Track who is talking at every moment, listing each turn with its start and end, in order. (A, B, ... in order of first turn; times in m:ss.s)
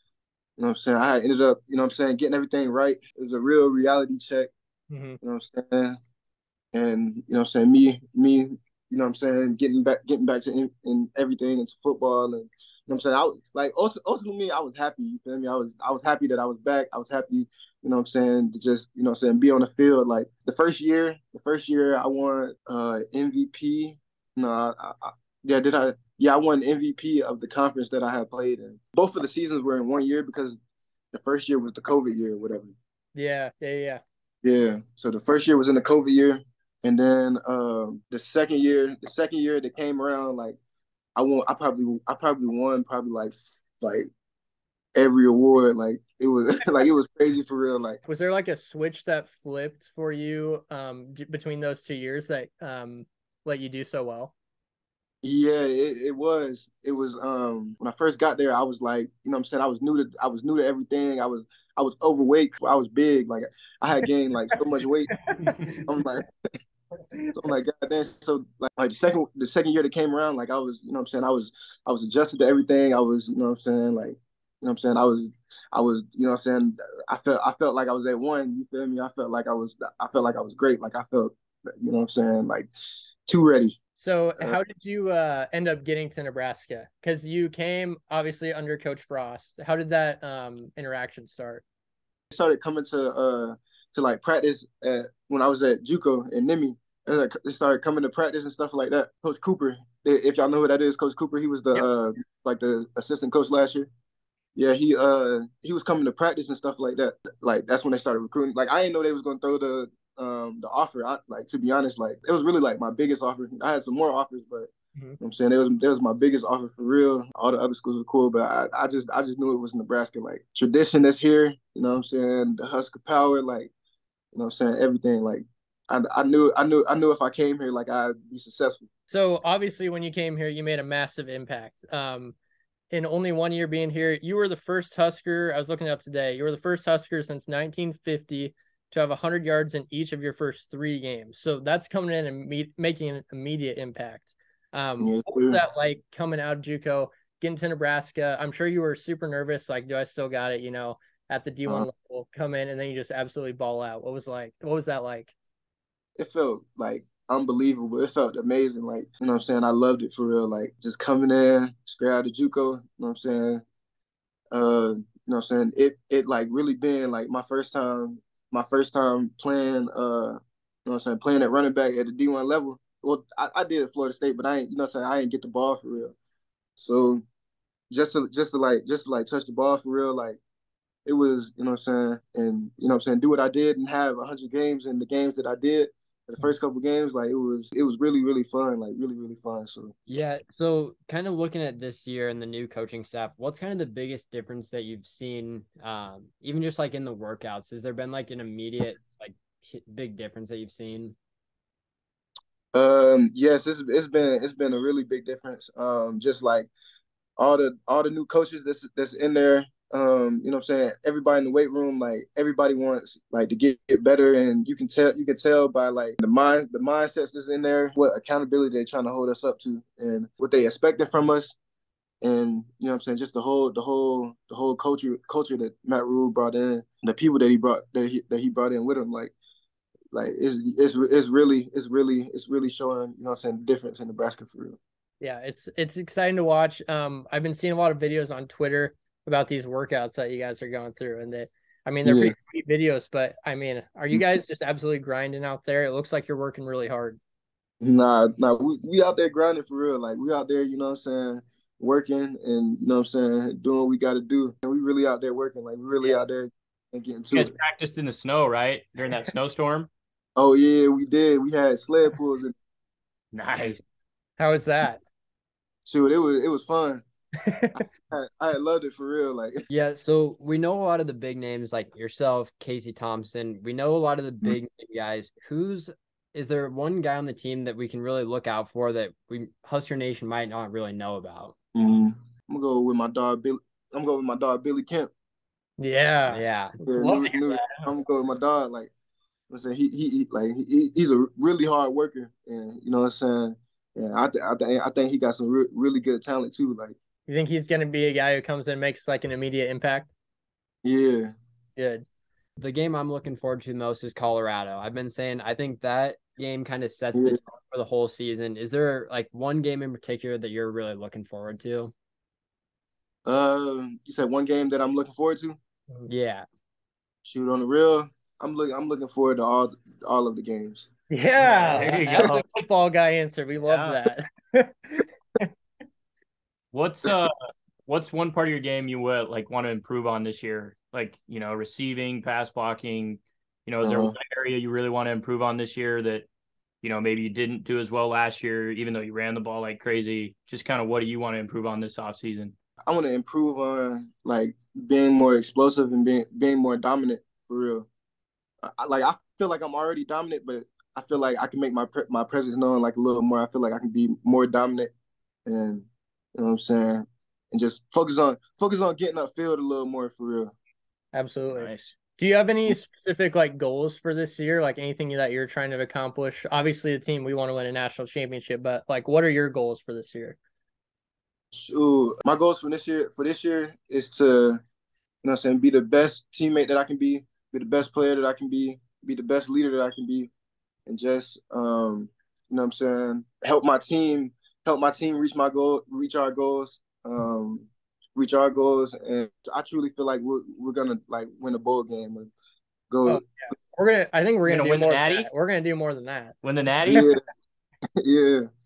0:00.6-0:04.5 A
0:04.9-0:05.2 B
0:05.2-0:06.0 A
0:06.7-0:30.6 A
0:31.1-0:32.7 A
0:33.2-0:34.0 B
0:34.4-0:40.6 A
0:41.2-0:44.1 A
0:45.0-0:48.0 A
0:48.1-0:54.3 B
0:55.2-1:05.1 A
1:05.4-1:05.8 B
1:05.8-1:06.3 A
1:07.3-1:22.7 A
1:23.3-1:23.8 A
1:24.0-1:31.6 B
1:32.3-1:43.9 A
1:44.6-2:03.7 A
2:04.3-2:08.9 A
2:09.1-2:12.4 B
2:12.9-2:35.3 B
2:25.0-2:25.6 A
2:36.2-2:43.6 A
2:44.5-2:56.1 A
2:56.8-2:57.2 A
2:57.9-3:00.4 A
3:01.1-3:09.9 A
3:10.1-3:21.2 C
3:22.7-3:26.7 A
3:27.4-3:41.6 A
3:42.2-3:49.3 A
3:50.1-3:54.8 A
3:55.2-4:07.2 B
4:02.0-4:02.3 A
4:07.8-4:17.6 A
4:17.3-4:19.9 D
4:20.4-4:22.6 A
4:23.3-4:23.8 D
4:24.4-4:25.0 B
4:25.9-4:27.0 A
4:27.4-4:27.8 B
4:27.8-4:29.6 A
4:29.7-4:41.6 C
4:41.8-4:45.1 A
4:45.8-4:47.9 B
4:46.3-4:46.8 C
4:46.9-4:48.9 A
4:49.5-4:57.0 A
4:57.3-5:00.1 B
5:00.8-5:01.3 A
5:01.8-5:02.0 B
5:02.6-5:11.9 C
5:13.3-5:15.6 A
5:16.1-5:16.5 C
5:17.3-5:20.9 A
5:21.1-5:25.5 B
5:21.6-5:22.4 D
5:21.7-5:22.4 A
5:23.6-5:24.0 D
5:26.7-5:27.3 D
5:27.9-5:36.3 D
5:33.8-5:34.2 A
5:36.8-5:42.5 D
5:42.9-5:47.9 A
5:48.6-5:54.9 A
5:55.5-6:00.5 A
6:01.1-6:10.4 B
6:01.5-6:01.9 D
6:11.6-6:14.6 A
6:15.2-6:20.3 A
6:20.9-6:32.3 A
6:32.9-6:33.2 A
6:33.1-6:37.1 B
6:34.5-6:35.3 D
6:36.4-6:37.1 D
6:36.8-6:37.2 A
6:38.0-6:38.5 A